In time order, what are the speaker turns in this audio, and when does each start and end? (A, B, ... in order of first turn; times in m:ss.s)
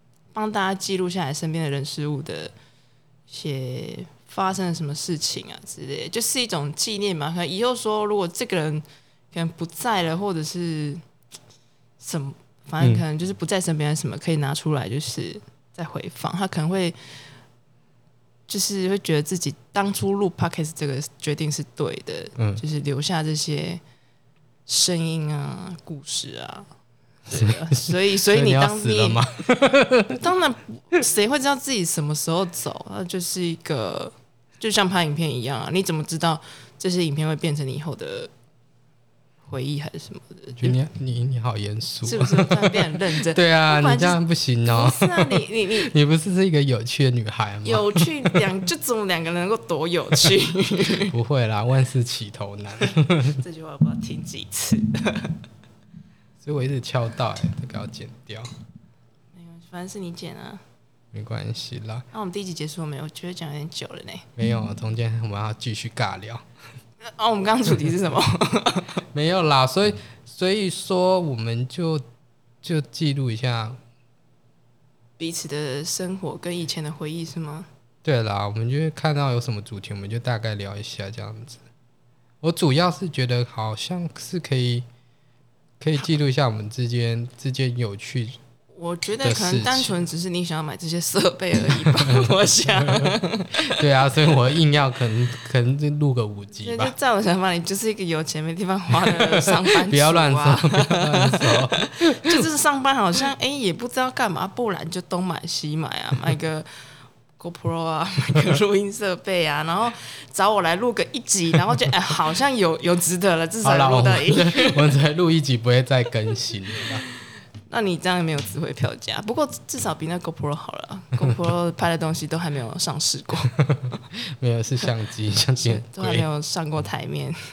0:00.3-0:02.5 A
0:03.3-0:11.0 A
0:12.0-0:17.0 A
0:18.5-0:23.8 A
0:24.7-0:26.7 A
0:27.3-0:29.2 A
0:27.3-0:30.2 B
0:30.2-0:38.3 A
0:39.5-0:40.8 A
0:40.6-0:48.4 B
0:42.0-0:45.9 A
0:47.6-0:51.1 A
0:51.1-0:53.4 B
0:53.4-0:55.3 A
0:56.4-0:58.5 B
0:59.3-1:00.6 A
1:01.1-1:02.0 B
1:02.1-1:04.2 A
1:04.4-1:06.4 B
1:07.0-1:09.0 A
1:09.1-1:12.0 B
1:12.6-1:13.8 B
1:15.2-1:17.7 A
1:18.0-1:21.6 B
1:22.4-1:24.8 B
1:25.8-1:28.4 B
1:28.7-1:33.7 A
1:29.2-1:30.0 B
1:31.7-1:36.9 B
1:36.6-1:46.7 A
1:39.0-1:42.4 B
1:47.4-1:54.9 A
1:53.6-1:57.0 B
1:57.7-2:03.6 A
2:04.4-2:06.3 B
2:05.6-2:07.4 A